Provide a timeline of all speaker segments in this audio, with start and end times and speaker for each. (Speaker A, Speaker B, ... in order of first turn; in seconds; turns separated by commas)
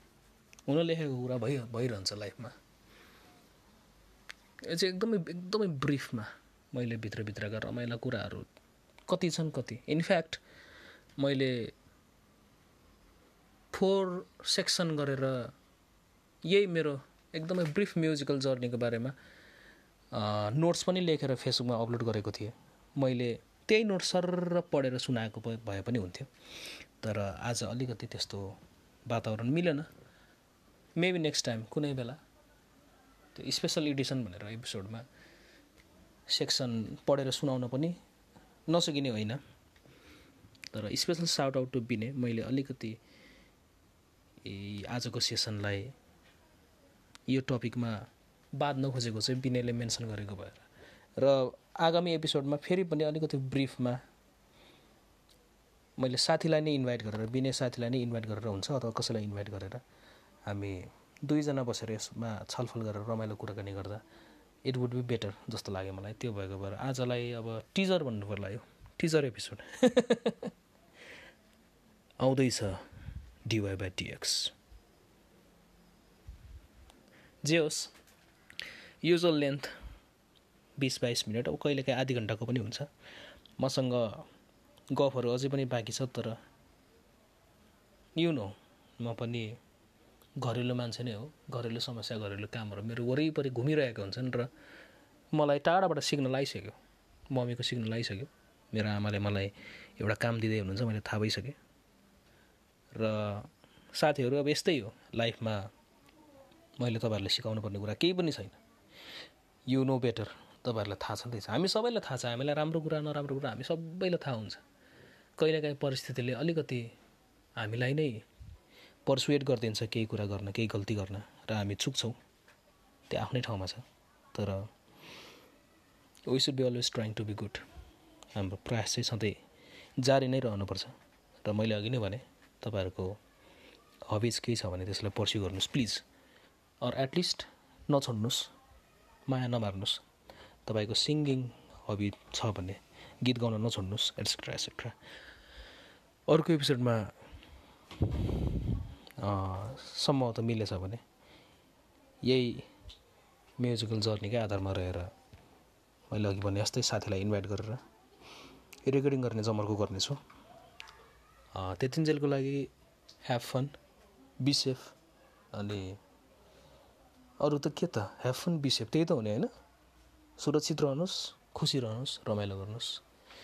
Speaker A: 0.7-2.5, Speaker A: 4.7-8.5, Speaker A: 9.1-10.4, Speaker A: 11.2-11.7, Speaker A: 13.7-15.5, Speaker A: 16.4-19.1, Speaker A: 20.1-26.3, Speaker A: 27.0-29.9, Speaker A: 31.0-32.2, Speaker A: 33.4-35.0, Speaker A: 36.3-38.0, Speaker A: 38.7-39.4, Speaker A: 40.7-43.0, Speaker A: 44.4-45.9, Speaker A: 47.3-50.7, Speaker A: 51.2-54.0, Speaker A: 56.0-59.8, Speaker A: 60.5-64.0, Speaker A: 64.7-70.5, Speaker A: 72.2-72.8, Speaker A: 73.5-74.5, Speaker A: 77.4-77.9, Speaker A: 79.0-79.7, Speaker A: 80.8-82.9, Speaker A: 83.6-84.2, Speaker A: 84.9-86.4, Speaker A: 88.2-89.6, Speaker A: 90.4-94.5, Speaker A: 95.3-96.8, Speaker A: 97.3-101.6, Speaker A: 102.9-105.7, Speaker A: 106.8-108.6, Speaker A: 109.7-114.6, Speaker A: 115.4-116.9, Speaker A: 117.6-118.2, Speaker A: 119.0-122.2, Speaker A: 123.1-124.7, Speaker A: 126.3-127.6, Speaker A: 128.3-129.4, Speaker A: 130.0-133.2, Speaker A: 134.1-136.0, Speaker A: 136.8-138.5, Speaker A: 139.3-140.0, Speaker A: 140.7-145.0, Speaker A: 146.3-147.1, Speaker A: 148.0-151.0, Speaker A: 152.3-152.7, Speaker A: 153.6-155.1, Speaker A: 156.1-157.8, Speaker A: 158.9-160.2, Speaker A: 161.6-162.7, Speaker A: 163.2-163.8, Speaker A: 164.4-164.9, Speaker A: 165.5-166.0, Speaker A: 167.4-169.5, Speaker A: 170.4-173.0